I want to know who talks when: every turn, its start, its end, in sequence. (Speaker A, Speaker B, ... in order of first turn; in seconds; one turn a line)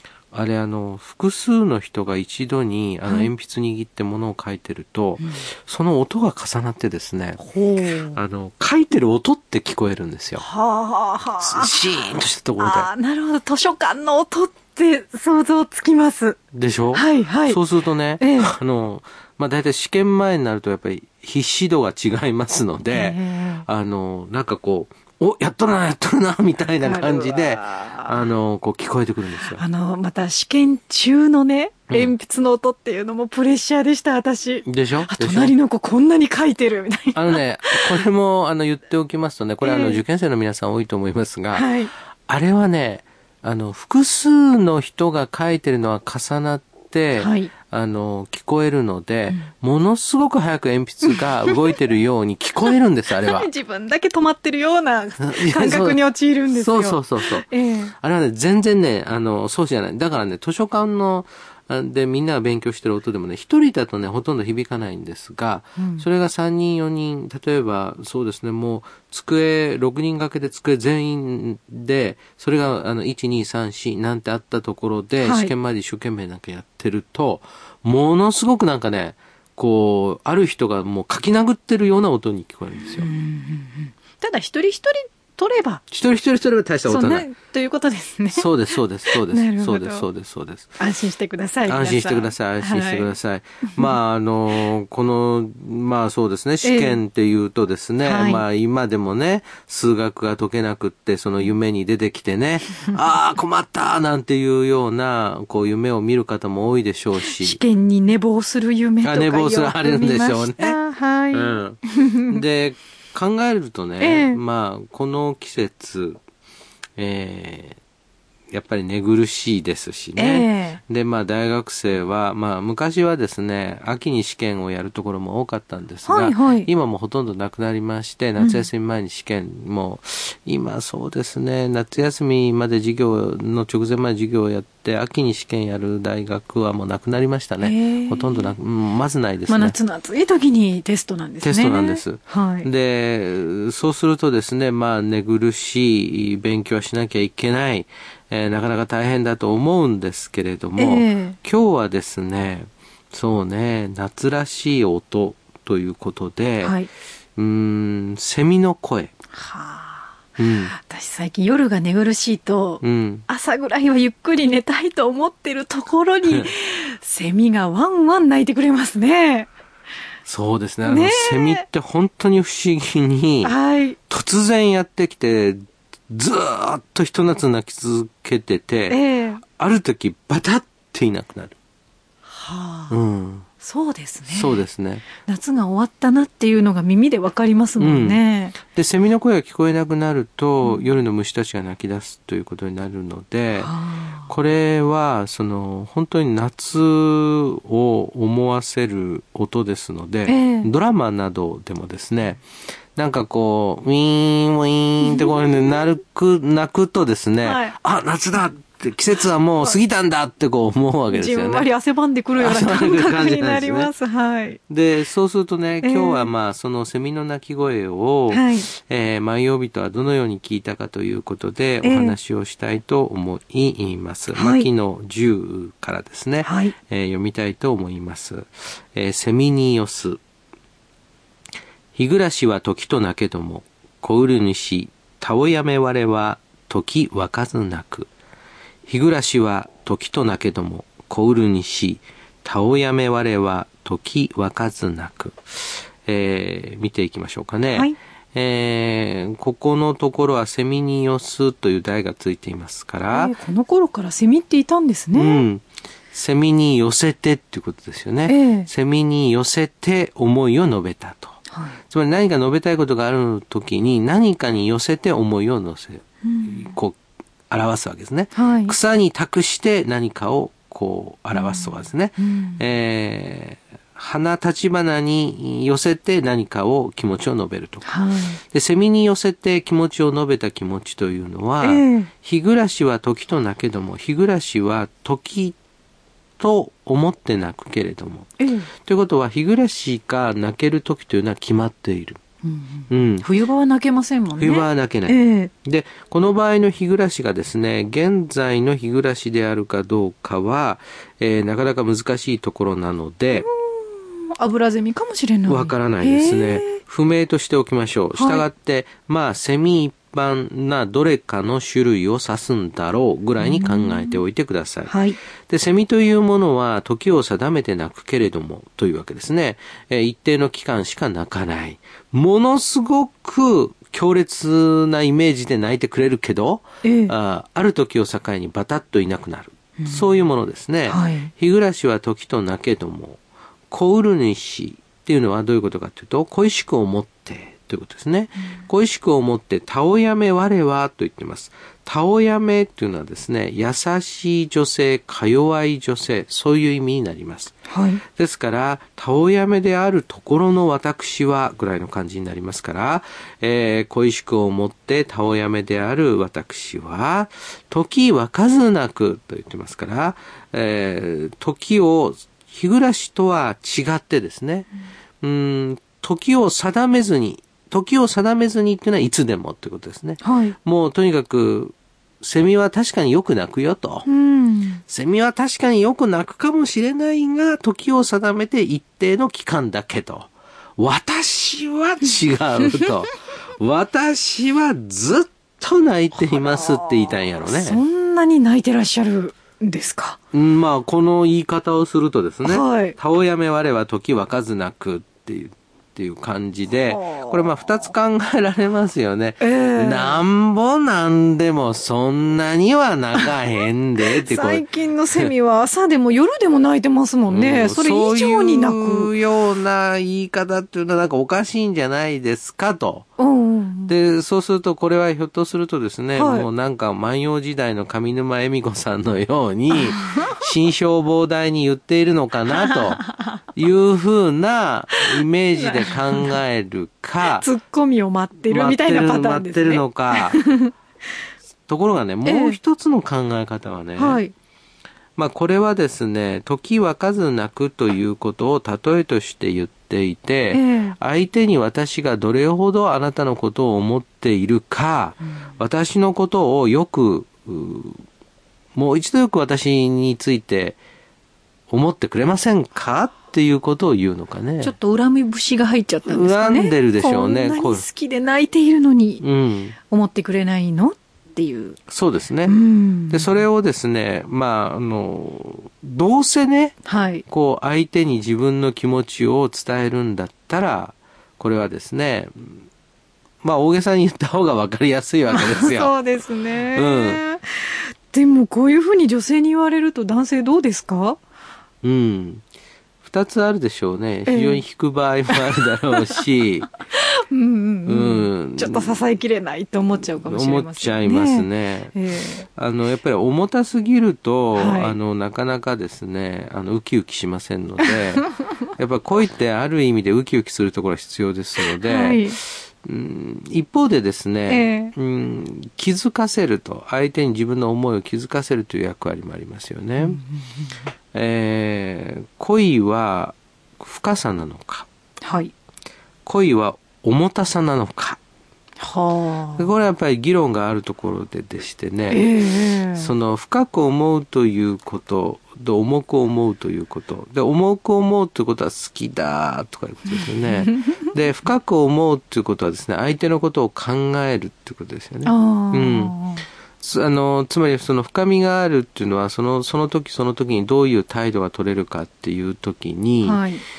Speaker A: 0.3-7.4
Speaker B: 3.1-3.3
Speaker B: 7.4-8.2
Speaker A: 8.1-10.4
Speaker B: 10.4-11.8
Speaker A: 11.4-12.9
Speaker B: 12.6-16.4
Speaker A: 16.5-29.6
Speaker B: 16.9-17.6
Speaker B: 18.2-18.5
Speaker B: 22.9-23.7
Speaker B: 26.8-28.3
Speaker B: 29.4-37.9
Speaker A: 34.6-35.5
Speaker A: 37.1-41.8
Speaker B: 39.6-40.0
Speaker B: 41.5-41.9
Speaker A: 42.3-53.5
Speaker B: 47.2-47.5
Speaker B: 51.1-51.8
Speaker B: 52.7-57.9
Speaker A: 55.2-83.1
Speaker B: 65.8-66.0
Speaker B: 75.2-75.5
Speaker B: 82.9-85.8
Speaker A: 85.9-87.3
Speaker B: 86.9-90.1
Speaker A: 88.3-90.8
Speaker B: 90.8-93.1
Speaker A: 91.7-107.6
Speaker B: 93.6-93.9
Speaker B: 96.6-97.0
Speaker B: 98.0-98.5
Speaker B: 107.2-111.3
Speaker A: 109.0-110.8
Speaker A: 111.3-116.2
Speaker B: 111.9-112.4
Speaker B: 114.0-114.4
Speaker A: 117.0-117.8
Speaker A: 118.5-139.8
Speaker B: 120.2-120.8
Speaker B: 126.1-126.7
Speaker B: 128.4-128.7
Speaker B: 137.6-138.5
Speaker B: 139.5-142.7
Speaker A: 141.4-156.8
Speaker B: 150.8-151.4
Speaker B: 156.6-156.9
Speaker A: 157.4-159.1
Speaker B: 159.3-160.2
Speaker A: 160.4-160.7
Speaker B: 160.7-169.5
Speaker A: 162.8-163.2
Speaker A: 170.3-173.6
Speaker B: 170.8-171.6
Speaker B: 173.4-174.0
Speaker A: 174.1-181.6
Speaker B: 178.9-179.4
Speaker B: 182.3-183.0
Speaker A: 182.9-183.5
Speaker B: 183.6-184.6
Speaker A: 184.3-185.1
Speaker B: 185.2-188.6
Speaker A: 187.8-193.7
Speaker B: 190.6-190.9
Speaker B: 193.6-194.3
Speaker A: 194.3-202.4
Speaker B: 200.3-200.7
Speaker A: 203.0-211.7
Speaker B: 207.4-207.8
Speaker B: 211.1-214.6
Speaker A: 212.4-213.9
Speaker A: 214.7-230.2
Speaker B: 215.8-216.3
Speaker B: 218.3-218.7
Speaker B: 221.8-222.2
Speaker B: 224.3-224.7
Speaker B: 226.4-226.8
Speaker A: 231.9-238.1
Speaker A: 238.9-253.3
Speaker B: 253.1-255.5
Speaker A: 255.1-261.4
Speaker B: 258.3-258.7
Speaker B: 261.5-261.8
Speaker A: 261.9-267.0
Speaker B: 266.2-266.7
Speaker A: 267.5-277.9
Speaker B: 268.3-268.8
Speaker B: 271.3-272.6
Speaker B: 277.8-278.4
Speaker A: 278.4-285.6
Speaker B: 281.6-282.1
Speaker A: 286.4-288.3
Speaker B: 288.4-288.7
Speaker A: 288.9-292.2
Speaker B: 292.4-295.5
Speaker A: 292.9-293.3
Speaker A: 294.4-303.5
Speaker B: 303.3-306.8
Speaker A: 305.5-347.6
Speaker B: 308.1-308.5
Speaker B: 313.4-314.2
Speaker B: 314.9-315.2
Speaker B: 326.8-327.1
Speaker B: 329.8-330.1
Speaker B: 330.9-331.3
Speaker B: 347.7-348.0
Speaker A: 348.1-364.7
Speaker A: 365.2-374.1
Speaker B: 370.2-370.6
Speaker B: 374.1-374.8
Speaker A: 374.9-387.8
Speaker B: 386.2-390.2
Speaker A: 390.3-405.3
Speaker B: 392.4-393.0
Speaker B: 396.8-397.6
Speaker B: 399.4-400.2
Speaker B: 404.0-409.1
Speaker A: 407.3-413.1
Speaker B: 413.2-413.9
Speaker A: 413.9-427.5
Speaker B: 416.1-416.5
Speaker B: 419.7-420.4
Speaker B: 422.7-423.3
Speaker B: 425.2-426.4
Speaker B: 427.3-430.7
Speaker A: 428.4-430.4
Speaker A: 431.7-434.2
Speaker B: 432.2-432.6
Speaker B: 434.0-434.3
Speaker A: 435.2-448.0
Speaker B: 440.5-441.0
Speaker A: 448.8-450.8
Speaker A: 451.7-454.7
Speaker B: 454.6-459.2
Speaker A: 456.1-457.9
Speaker A: 459.2-459.8
Speaker B: 459.8-461.8
Speaker A: 461.9-462.6
Speaker B: 462.4-463.4
Speaker A: 463.1-472.6
Speaker B: 466.9-467.2
Speaker A: 473.4-476.0
Speaker B: 475.3-481.2
Speaker A: 476.7-477.2
Speaker A: 481.8-482.4
Speaker A: 483.0-486.7
Speaker B: 484.3-484.6
Speaker B: 485.3-486.2
Speaker B: 486.9-492.5
Speaker A: 487.9-489.1
Speaker A: 490.1-510.2
Speaker B: 494.5-495.0
Speaker B: 501.8-502.4
Speaker B: 504.5-504.9
Speaker B: 510.0-510.4
Speaker A: 511.1-514.9
Speaker B: 515.2-515.5
Speaker A: 516.2-518.2
Speaker B: 518.8-519.7
Speaker A: 519.6-522.3
Speaker B: 522.1-523.1
Speaker A: 522.9-536.1
Speaker B: 530.3-530.9
Speaker B: 535.2-536.5
Speaker A: 536.8-543.4
Speaker B: 543.2-543.6